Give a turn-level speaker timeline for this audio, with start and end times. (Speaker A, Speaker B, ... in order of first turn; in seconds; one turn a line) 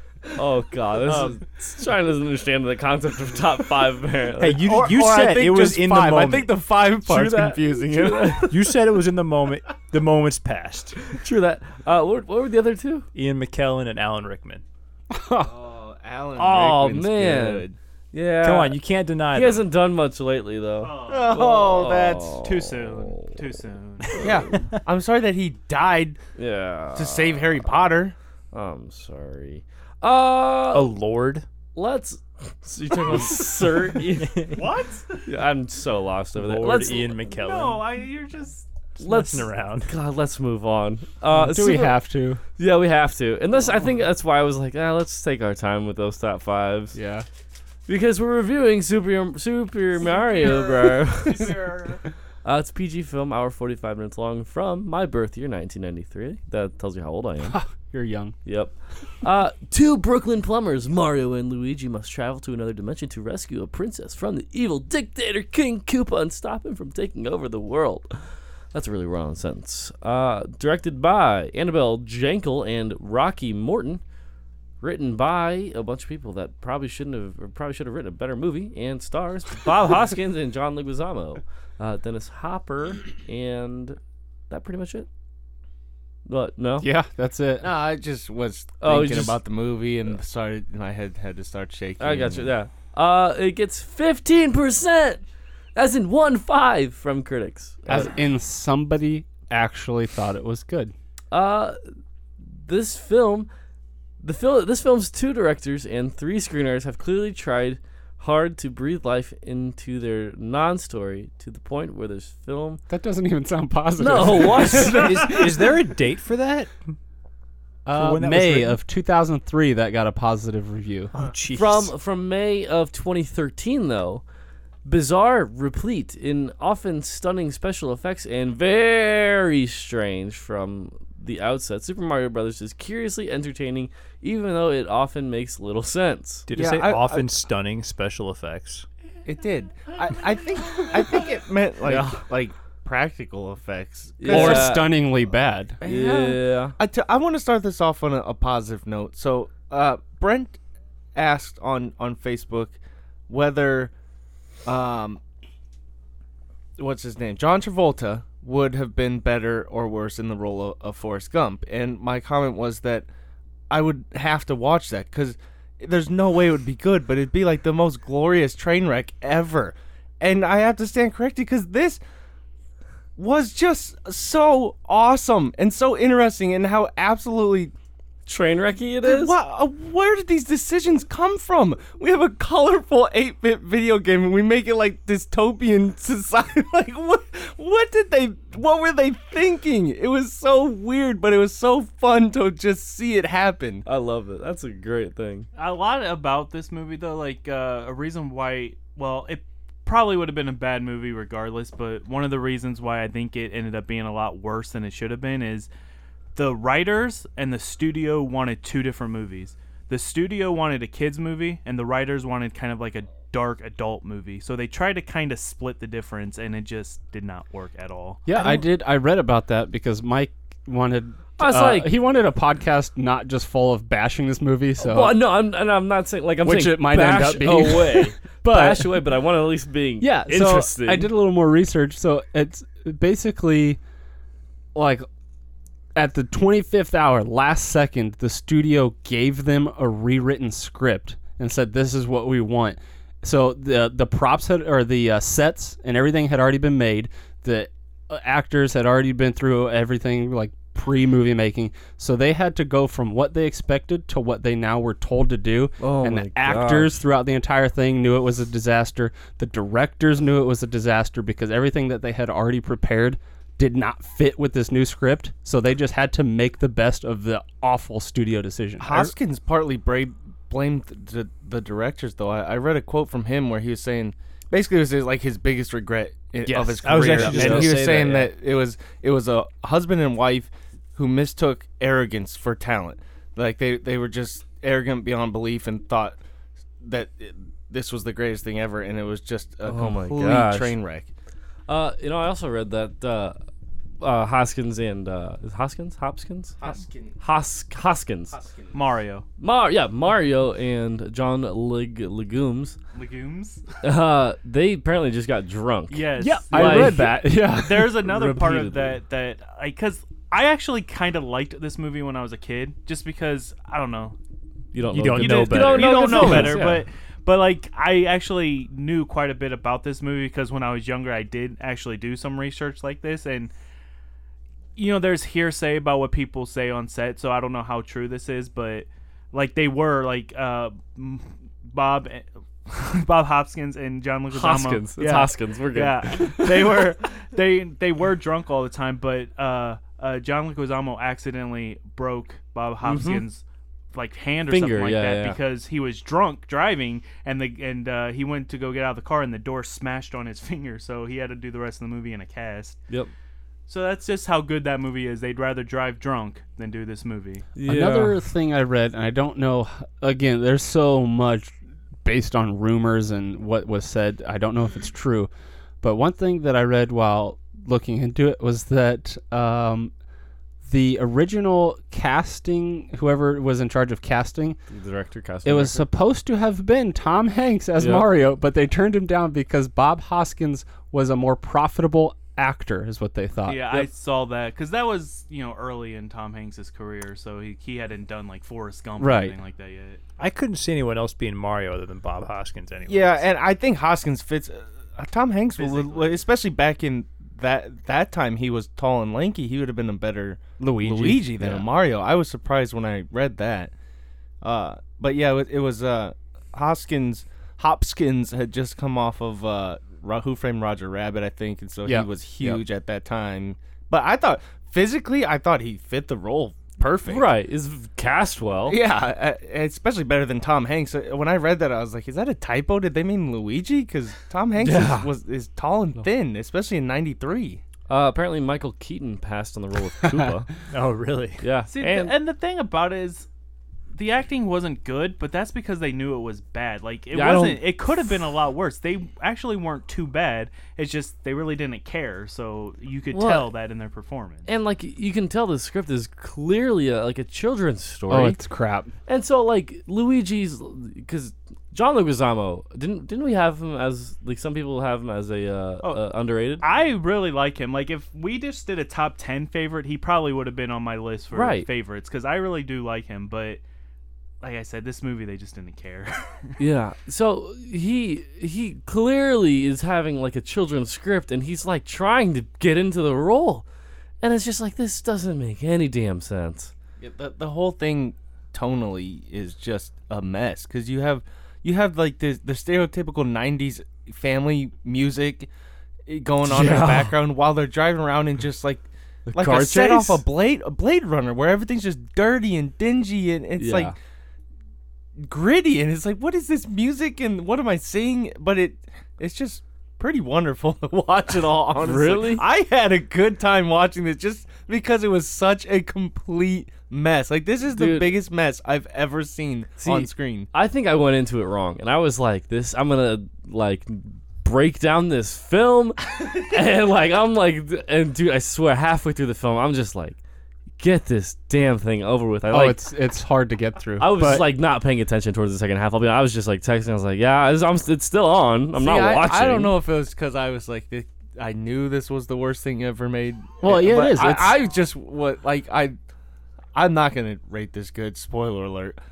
Speaker A: 0.3-4.7
Speaker B: 1.0-1.4
Speaker B: 4.4-6.5
Speaker C: 4.6-8.5
Speaker A: 7.0-8.6
Speaker B: 8.5-11.2
Speaker A: 11.1-13.1
Speaker B: 13.1-14.6
Speaker D: 15.1-15.5
Speaker C: 15.4-17.8
Speaker A: 16.4-18.8
Speaker B: 18.4-19.7
Speaker A: 19.3-23.3
Speaker E: 20.8-21.5
Speaker C: 21.1-22.4
Speaker E: 22.4-24.2
Speaker C: 24.2-26.2
Speaker A: 26.4-27.6
Speaker C: 26.9-28.1
Speaker A: 28.5-31.0
Speaker B: 30.7-31.5
Speaker A: 31.8-34.5
Speaker B: 33.1-33.4
Speaker B: 34.1-34.6
Speaker E: 34.5-35.3
Speaker A: 35.3-37.2
Speaker B: 36.4-37.8
Speaker E: 37.3-38.7
Speaker B: 39.0-39.9
Speaker A: 39.0-42.0
Speaker D: 41.3-42.4
Speaker A: 42.6-47.0
Speaker D: 46.9-47.2
Speaker A: 47.9-51.8
Speaker E: 50.0-52.0
Speaker A: 52.4-57.6
Speaker D: 57.4-58.4
Speaker A: 58.5-68.1
Speaker A: 68.7-74.0
Speaker A: 74.8-84.0
Speaker A: 84.5-85.1
Speaker A: 86.3-86.9
Speaker D: 86.8-87.7
Speaker C: 87.6-92.5
Speaker A: 88.8-89.4
Speaker A: 92.0-95.2
Speaker A: 95.8-98.1
Speaker D: 97.9-100.9
Speaker A: 101.3-101.8
Speaker A: 102.6-103.5
Speaker A: 104.2-112.8
Speaker D: 112.9-115.2
Speaker A: 114.0-115.4
Speaker B: 114.7-116.8
Speaker D: 117.9-121.1
Speaker B: 117.9-118.8
Speaker B: 121.1-122.0
Speaker A: 121.5-124.2
Speaker A: 124.8-136.5
Speaker B: 136.5-138.9
Speaker C: 136.5-137.3
Speaker C: 139.2-144.7
Speaker A: 141.8-142.2
Speaker A: 144.2-145.0
Speaker D: 144.3-145.8
Speaker C: 145.8-150.6
Speaker A: 145.8-146.8
Speaker C: 151.2-152.8
Speaker C: 153.3-153.9
Speaker C: 154.7-155.2
Speaker C: 156.8-163.1
Speaker C: 163.7-172.0
Speaker C: 173.2-177.7
Speaker A: 178.3-179.3
Speaker C: 179.0-193.8
Speaker A: 193.9-195.5
Speaker E: 195.6-205.7
Speaker E: 206.3-218.2
Speaker D: 218.3-225.2
Speaker A: 221.4-222.0
Speaker A: 224.8-231.1
Speaker D: 226.4-229.0
Speaker D: 230.0-233.8
Speaker D: 234.8-235.1
Speaker D: 236.0-269.1
Speaker A: 255.8-257.0
Speaker C: 268.8-286.2
Speaker B: 276.5-278.2
Speaker A: 277.0-277.8
Speaker C: 286.8-291.1
Speaker A: 289.7-290.8
Speaker A: 291.7-293.4
Speaker A: 294.0-296.6
Speaker C: 296.6-297.1
Speaker A: 297.2-298.4
Speaker C: 298.3-298.8
Speaker E: 298.7-299.2
Speaker A: 299.4-302.8
Speaker E: 302.9-303.6
Speaker A: 303.8-307.3
Speaker E: 305.9-314.2
Speaker D: 306.2-308.3
Speaker A: 308.1-308.9
Speaker A: 314.7-316.8
Speaker B: 314.9-316.6
Speaker E: 315.2-323.5
Speaker E: 324.8-352.8
Speaker A: 334.3-336.9
Speaker A: 342.8-343.2
Speaker A: 344.5-345.4
Speaker E: 353.7-357.5
Speaker A: 357.6-358.2
Speaker D: 357.6-361.5
Speaker D: 362.0-365.3
Speaker D: 365.8-369.9
Speaker D: 370.7-374.6
Speaker A: 374.7-375.9
Speaker D: 375.4-383.9
Speaker A: 377.8-378.1
Speaker E: 383.5-390.0
Speaker D: 389.0-389.4
Speaker B: 390.2-393.2
Speaker C: 392.9-403.7
Speaker E: 395.6-396.2
Speaker D: 400.6-401.2
Speaker C: 404.4-417.3
Speaker A: 417.1-418.8
Speaker C: 418.7-427.6
Speaker A: 424.6-425.1
Speaker A: 427.9-430.5
Speaker B: 430.7-431.4
Speaker A: 431.4-432.1
Speaker E: 431.7-433.3
Speaker E: 433.9-444.5
Speaker A: 437.1-437.6
Speaker A: 443.1-443.5
Speaker A: 444.5-448.4
Speaker D: 448.1-448.9
Speaker A: 449.1-456.6
Speaker E: 456.6-463.6
Speaker A: 461.3-461.7
Speaker E: 464.4-466.6
Speaker A: 466.6-473.6
Speaker A: 474.2-476.7
Speaker C: 477.0-485.5
Speaker C: 486.1-493.9
Speaker A: 486.5-487.1
Speaker A: 489.3-490.2
Speaker A: 493.6-493.9
Speaker C: 495.2-510.5
Speaker A: 501.8-502.4
Speaker A: 507.7-508.1
Speaker A: 509.8-520.2
Speaker A: 520.8-522.9
Speaker D: 522.5-524.5
Speaker A: 524.0-529.8
Speaker C: 528.8-536.0
Speaker D: 533.6-534.6
Speaker C: 536.7-539.0